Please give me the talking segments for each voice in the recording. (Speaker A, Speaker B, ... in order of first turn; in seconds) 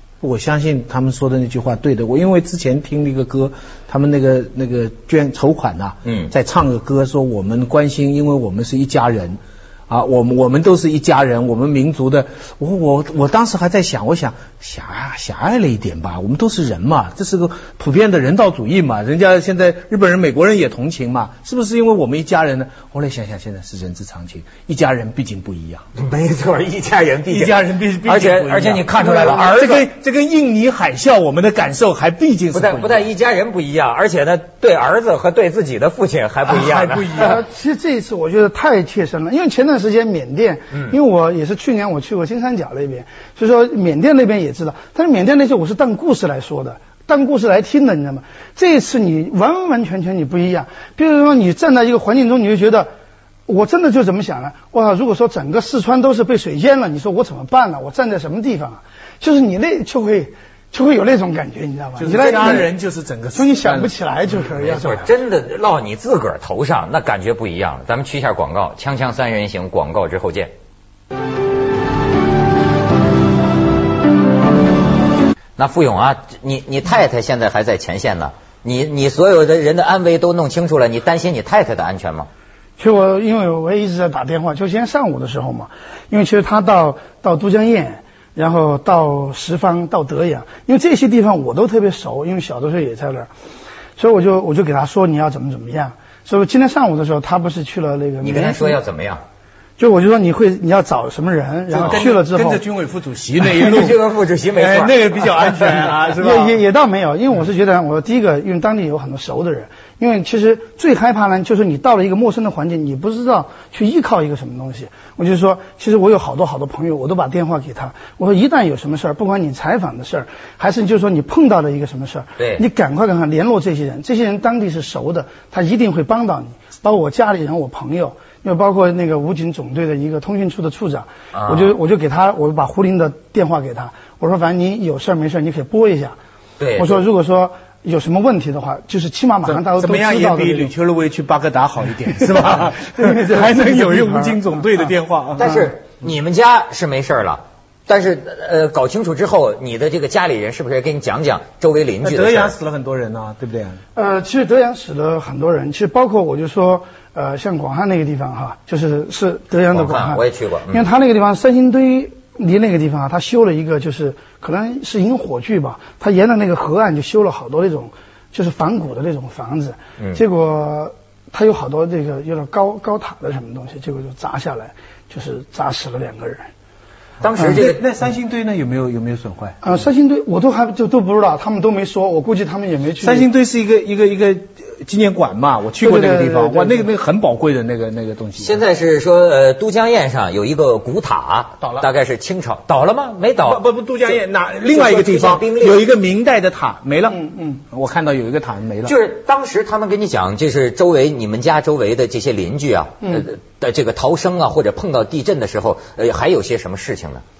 Speaker A: 0.2-25.9, 27.3-33.1, 36.5-37.4, 62.0-64.0, 101.7-106.6, 139.5-145.6, 152.0-153.8, 177.4-179.7, 183.0-188.6, 191.6-191.9, 193.4-198.9
Speaker B: 6.0-6.3, 26.0-29.9, 32.5-37.3, 64.4-70.5, 75.6-82.3, 98.2-99.2, 103.5-105.9, 122.4-122.6, 131.3-131.7, 136.6-137.0, 145.4-152.6, 159.7-160.9, 177.2-177.8, 188.4-193.6, 194.7-195.8, 198.8-207.2
Speaker C: 37.2-52.9, 53.5-62.7, 63.4-65.1, 82.8-93.3, 94.0-98.8, 99.8-102.6, 106.2-136.2, 136.8-140.7, 142.2-144.4, 153.9-176.5, 177.4-177.7, 179.6-183.3, 185.8-186.9, 197.1-197.6